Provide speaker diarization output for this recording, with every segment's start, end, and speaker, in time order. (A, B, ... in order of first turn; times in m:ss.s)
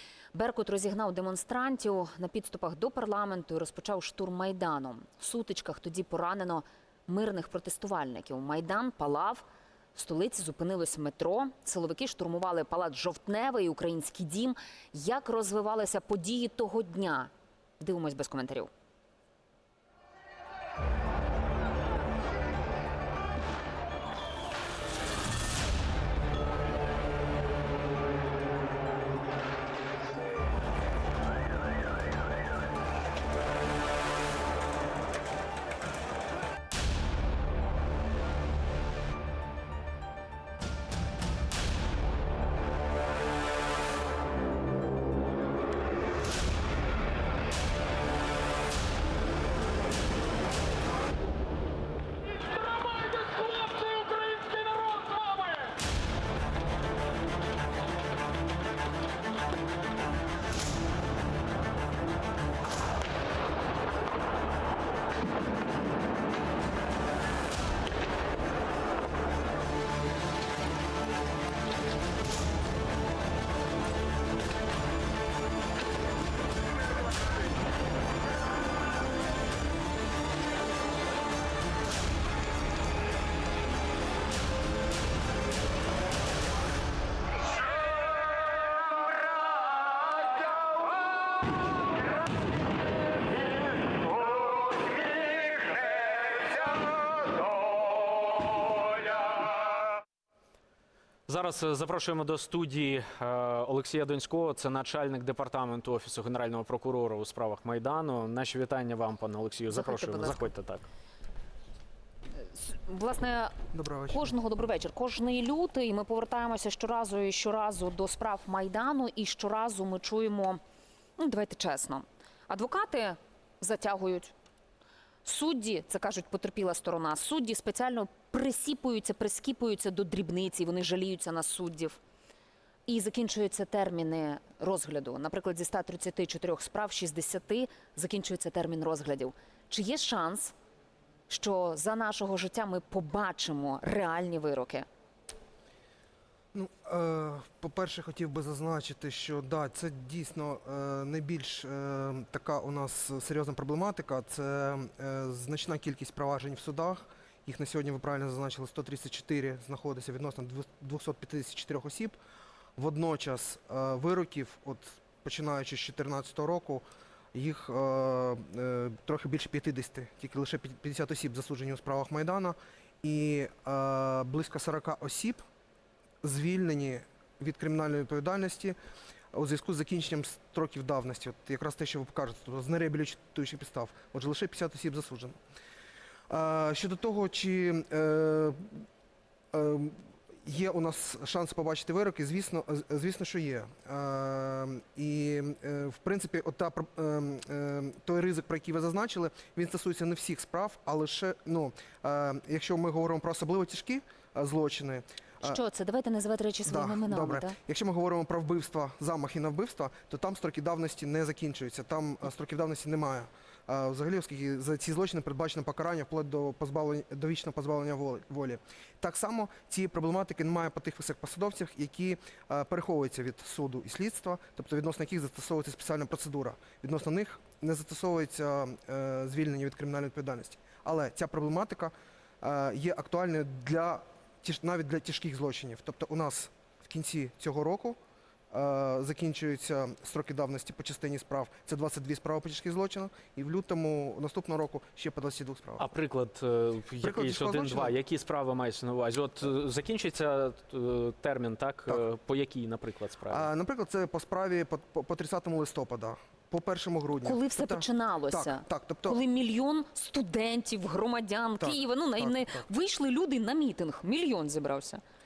0:00.3-0:18.7 A
1:41.3-1:50.8 B
1:49.7-1:50.5 A
1:52.4-1:53.6 A
1:53.7-1:54.3 C
1:54.1-2:00.6 A
2:01.2-2:04.3 A
2:05.2-2:12.0 A
2:12.9-2:20.6 A
2:21.3-2:24.9 A
2:26.5-2:42.2 C
2:42.8-2:55.4 C
2:56.2-2:58.8 C
2:59.3-3:05.4 C
3:06.3-3:08.8 C
3:09.5-3:25.6 C
3:25.4-3:27.6 A
3:26.7-3:58.0 C
3:58.5-4:05.9 C
4:05.8-4:13.5 B
4:07.0-4:08.0 C
4:13.3-4:19.2 C
4:17.2-4:25.0 A
4:21.6-4:22.6 C